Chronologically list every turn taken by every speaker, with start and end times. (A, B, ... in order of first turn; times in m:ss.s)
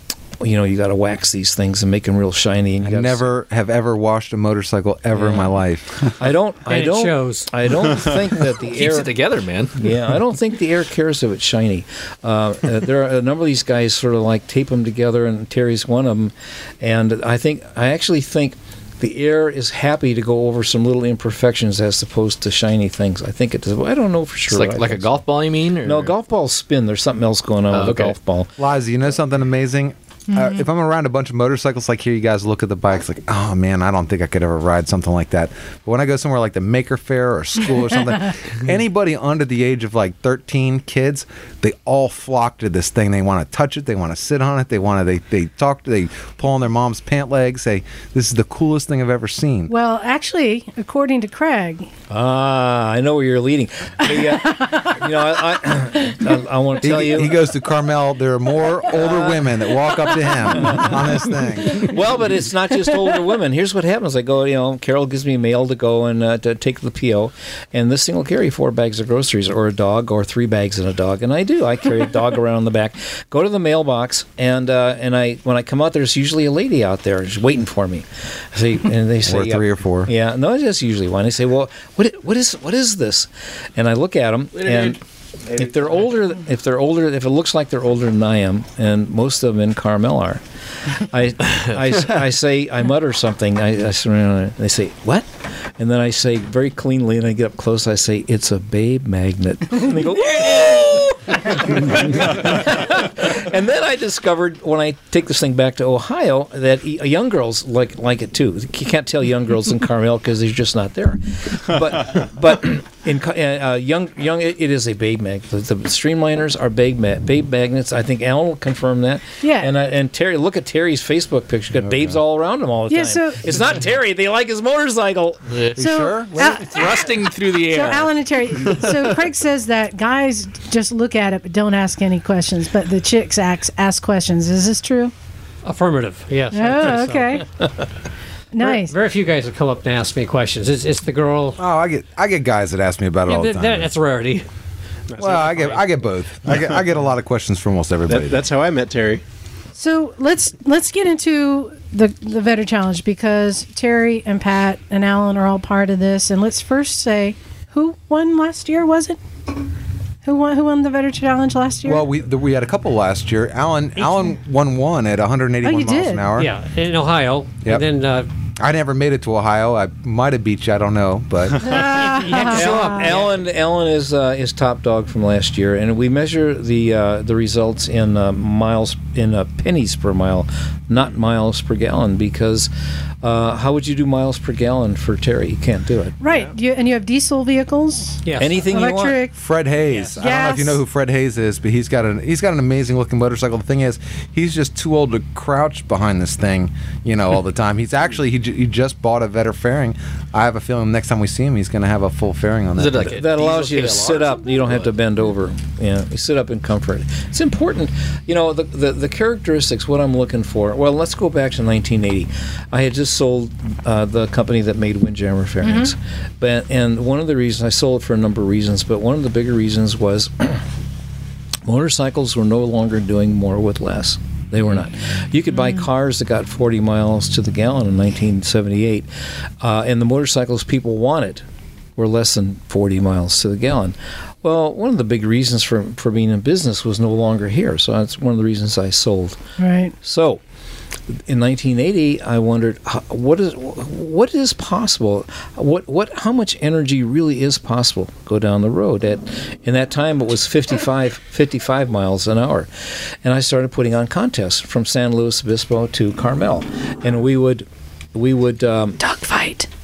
0:00.4-0:03.2 A
0:02.8-0:06.1 B
0:05.2-0:05.5 A
0:06.1-0:09.2 A
0:06.7-0:07.5 C
0:08.5-0:09.7 D
0:09.8-0:25.1 A
0:24.5-0:26.1 D
0:25.8-0:28.5 A
0:27.7-0:28.1 D
0:28.6-0:49.7 B
0:49.7-0:51.9 E
0:52.1-0:57.4 A
0:54.1-0:55.0 E
0:56.8-1:02.0 B
0:59.0-0:59.4 A
1:00.5-2:05.6 A
1:19.2-1:20.1 B
1:24.6-1:25.0 D
1:59.4-1:59.7 E
2:01.8-2:02.1 B
2:02.9-2:03.4 E
2:05.5-2:05.8 D
2:05.8-2:06.6 B
2:05.8-2:15.1 E
2:06.4-2:08.1 D
2:15.6-2:17.4 C
2:16.5-2:17.4 E
2:18.5-2:18.9 E
2:18.6-2:21.6 C
2:21.6-2:23.9 B
2:23.2-2:24.4 C
2:25.1-2:26.0 F
2:25.2-2:28.4 B
2:28.1-2:29.2 F
2:29.8-2:39.2 E
2:40.2-2:42.0 E
2:41.8-2:46.5 B
2:44.0-2:44.2 C
2:45.6-2:46.3 E
2:46.4-2:48.3 C
2:48.6-2:52.0 B
2:51.6-2:53.1 E
2:52.0-2:53.3 C
2:52.2-3:02.7 A
3:03.2-3:06.1 A
3:06.2-3:09.3 E
3:08.2-3:08.6 C
3:08.4-3:09.2 A
3:09.4-3:23.2 B
3:10.2-3:10.8 E
3:22.8-3:24.9 D
3:23.0-3:40.7 A
3:35.6-3:35.9 E
3:41.6-3:49.1 A
3:49.6-3:51.4 A
3:52.0-3:59.4 A
3:59.6-3:59.9 E
4:00.0-4:00.4 A
4:01.1-4:19.0 A
4:19.0-4:19.7 E